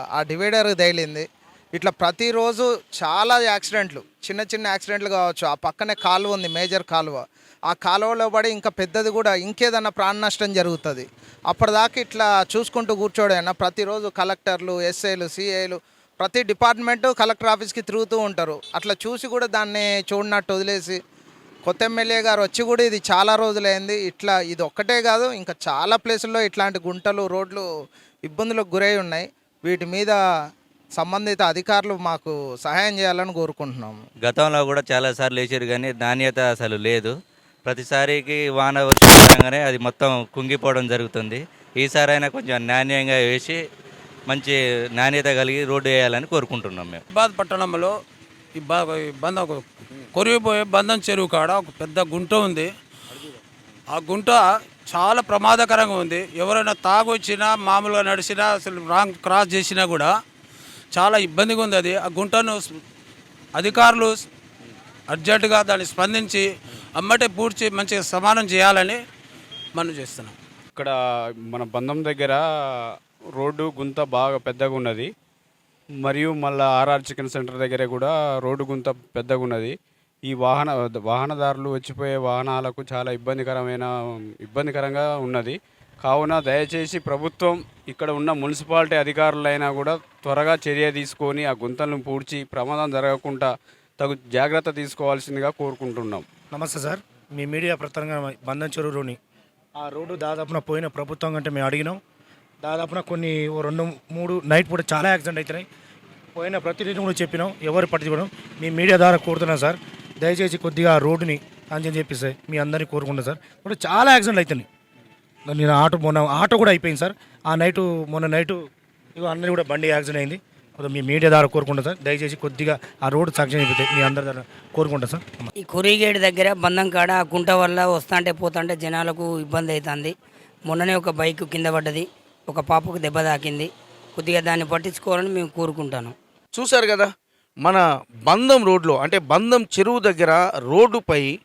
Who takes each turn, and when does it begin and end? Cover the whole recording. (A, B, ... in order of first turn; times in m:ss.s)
0:00.2-0:21.0 A
0:21.6-0:27.6 A
0:28.2-0:30.2 A
0:31.0-0:34.0 A
0:34.2-0:37.1 B
0:37.7-0:43.6 B
0:44.3-0:47.0 B
0:47.1-0:47.9 C
0:48.6-0:52.7 C
0:53.9-1:00.1 C
1:00.9-1:02.8 C
1:03.5-1:04.2 C
1:05.1-1:06.5 C
1:07.0-1:09.0 C
1:09.7-1:10.3 C
1:11.5-1:15.1 D
1:16.0-1:19.7 D
1:20.2-1:23.9 D
1:24.4-1:36.2 D
1:36.5-1:39.2 E
1:39.8-1:42.0 E
1:42.6-1:45.6 E
1:46.4-1:54.6 E
1:55.5-1:58.6 E
1:59.2-2:05.5 E
2:05.6-2:10.1 F
2:10.7-2:16.1 F
2:16.5-2:17.1 G
2:17.6-2:21.3 G